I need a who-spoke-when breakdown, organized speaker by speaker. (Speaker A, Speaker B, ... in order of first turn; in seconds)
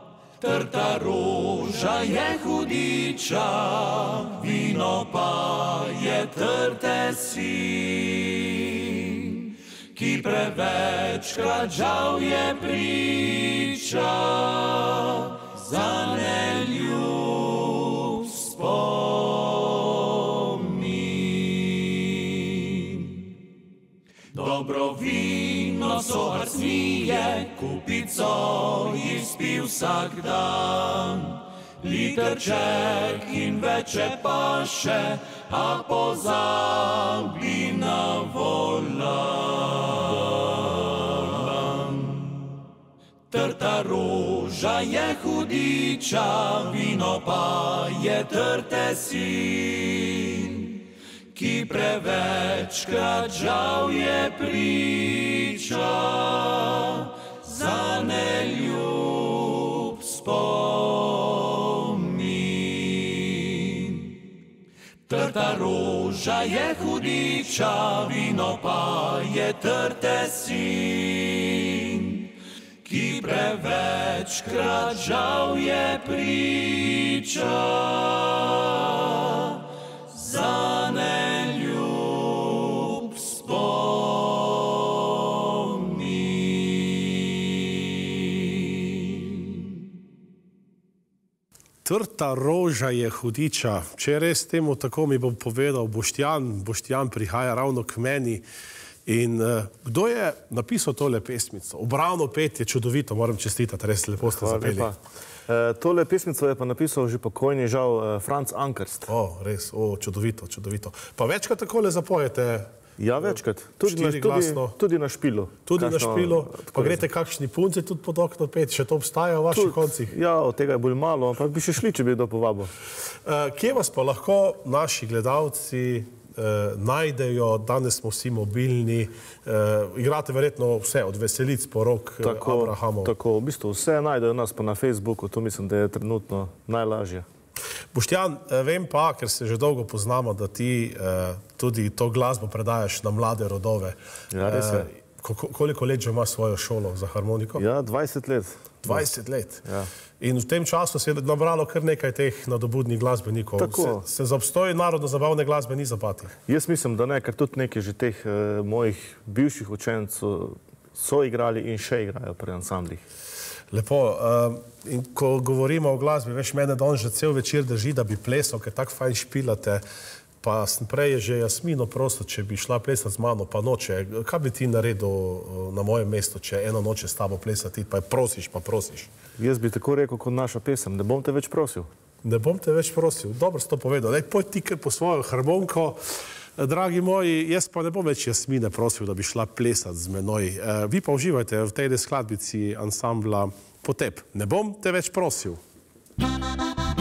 Speaker A: 0.4-23.2, 24.3-42.6, 43.3-50.8, 51.3-64.1, 65.1-72.3, 72.8-84.8, 85.3-87.2, 89.0-89.3
Speaker B: 91.8-98.4, 99.0-104.9, 109.1-112.7, 113.2-114.8, 115.7-120.1, 123.2-133.1, 137.9-147.6, 148.8-149.6, 150.2-156.3, 163.7-169.8, 170.4-179.1, 182.2-186.0, 186.6-195.6
Speaker C: 104.2-109.1, 113.0-117.0, 119.5-122.7, 132.2-137.2, 144.3-144.9, 147.6-149.1, 149.6-149.9, 153.6-154.0, 156.5-163.0, 179.4-181.9